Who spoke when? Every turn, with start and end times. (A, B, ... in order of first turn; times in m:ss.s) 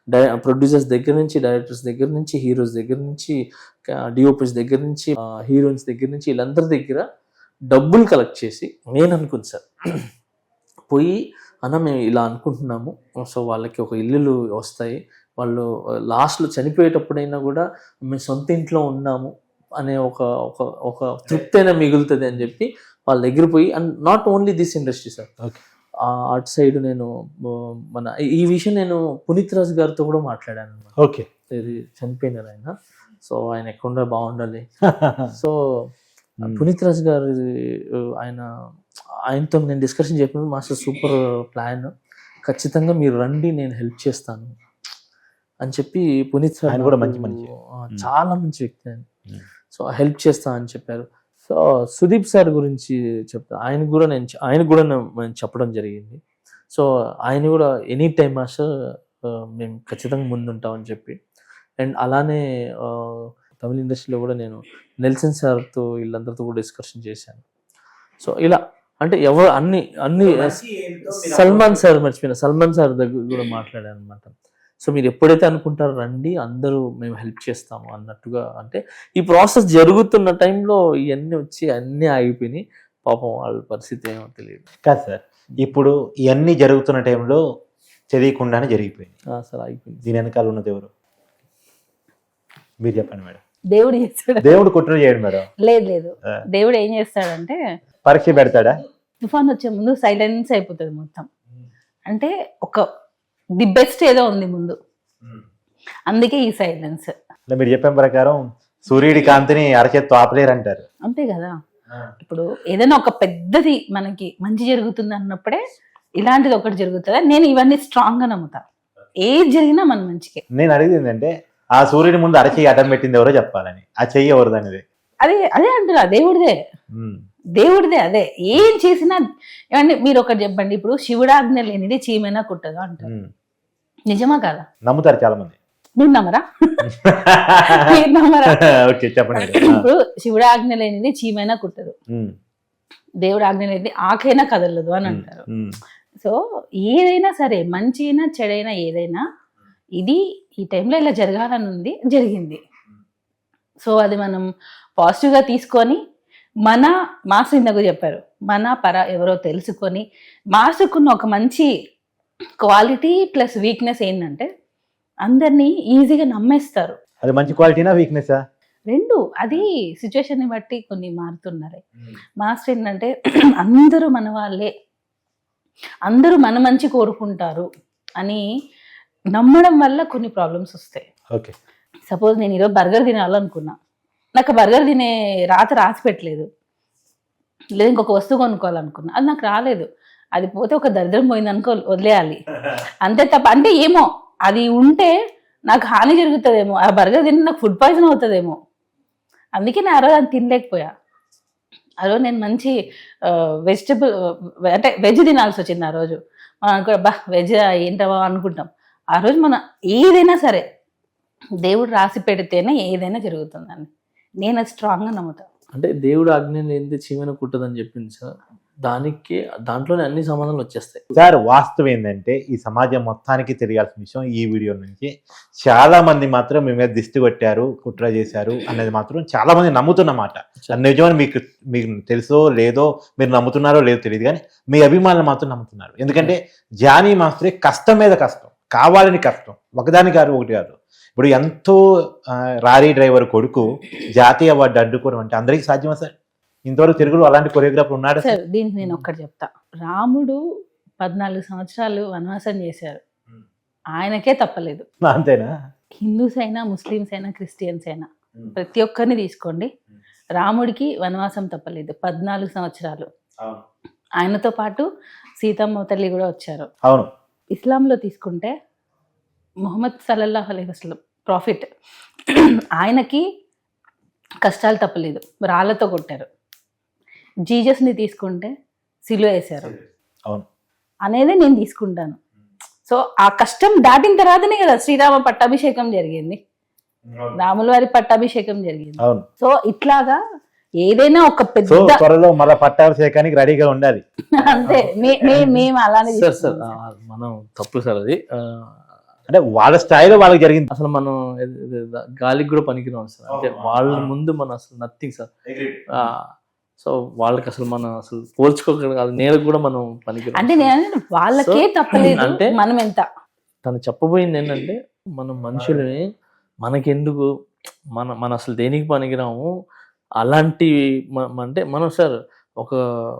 0:00.1-0:03.3 A
0:03.9-0:07.0 A
0:07.7-0:09.6 A
0:10.9-0:25.3 A
0:26.1-0:27.1 A
0:27.9-0:30.9 A
0:31.0-0:31.2 B
0:31.5-0:32.7 A
0:33.2-0:34.6 A
0:34.9-0:35.3 B
0:36.4-0:37.4 A
0:38.2-0:38.4 A
0:39.3-0:41.9 A
0:42.4-0:44.5 A
0:45.6-0:49.0 A
0:46.7-0:47.4 B
0:49.7-0:56.2 A
0:56.7-0:58.6 A
0:59.6-1:01.2 A
1:01.8-1:07.4 A
1:08.2-1:24.6 A
1:10.2-1:11.8 B
1:24.8-1:27.4 B
1:28.1-1:29.1 B
1:29.4-1:30.0 A
1:30.0-1:30.9 B
1:32.8-1:33.4 B
1:33.7-1:34.6 C
1:34.4-1:35.5 B
1:35.6-1:37.6 C
1:38.0-1:38.8 B
1:39.2-1:41.3 C
1:42.1-1:42.8 C
1:43.6-1:44.8 C
1:46.1-1:47.1 C
1:47.5-1:50.8 B
1:51.0-1:51.5 C
1:52.2-1:55.6 C
1:56.2-1:58.6 C
1:59.2-2:00.4 C
2:00.5-2:04.8 B
2:05.2-2:06.6 C
2:06.9-2:07.2 B
2:07.6-2:09.2 C
2:09.7-2:13.1 C
2:13.0-2:13.3 B
2:14.1-2:14.6 C
2:14.8-2:15.5 B
2:16.0-2:16.8 C
2:16.8-2:17.8 B
2:17.6-2:18.6 C
2:18.9-2:19.8 B
2:19.4-2:21.9 C
2:23.2-2:25.4 C
2:25.0-2:25.8 B
2:26.2-2:29.2 C
2:30.0-2:32.6 C
2:33.8-2:34.4 C
2:35.0-2:36.0 C
2:36.7-2:41.7 C
2:42.6-2:44.5 C
2:45.2-2:47.0 C
2:47.2-2:48.4 B
2:48.9-2:51.8 C
2:52.4-2:53.1 C
2:53.6-2:54.7 C
2:56.1-2:57.7 C
2:59.3-3:01.1 C
3:02.1-3:03.7 C
3:04.4-3:06.4 C
3:07.8-3:12.4 C
3:13.0-3:15.1 C
3:15.7-3:18.6 C
3:19.6-3:20.9 C
3:22.0-3:22.7 C
3:23.3-3:24.0 C
3:24.7-3:30.6 C
3:31.6-3:33.9 C
3:34.4-3:35.4 C
3:35.7-3:38.3 A
3:38.8-3:41.0 A
3:41.2-3:45.1 B
3:45.6-4:06.1 B
4:06.6-4:08.4 B
4:08.2-4:10.4 C
4:11.0-4:13.0 C
4:14.0-4:14.8 C
4:15.0-4:15.5 B
4:16.0-4:19.7 C
4:20.4-4:23.1 C
4:24.2-4:24.8 C
4:25.4-4:26.7 C
4:27.5-4:28.5 C
4:29.7-4:31.6 C
4:32.3-4:33.2 C
4:34.4-4:36.2 C
4:37.5-4:38.5 C
4:39.1-4:39.7 C
4:39.6-4:40.4 B
4:41.1-4:42.2 C
4:42.8-4:46.4 C
4:47.1-4:47.4 B
4:47.4-4:50.2 C
4:50.8-4:52.0 C
4:51.7-4:54.7 B
4:54.4-4:56.7 C
4:54.7-4:58.2 A
4:59.3-5:00.7 B
5:00.7-5:05.3 A
5:03.3-5:04.1 B
5:05.4-5:06.0 B
5:06.0-5:06.2 A
5:06.8-5:10.7 A
5:10.3-5:13.0 C
5:11.3-5:12.5 A
5:13.6-5:16.0 A
5:15.5-5:15.8 B
5:16.6-5:17.2 A
5:18.0-5:19.4 A
5:20.2-5:22.8 A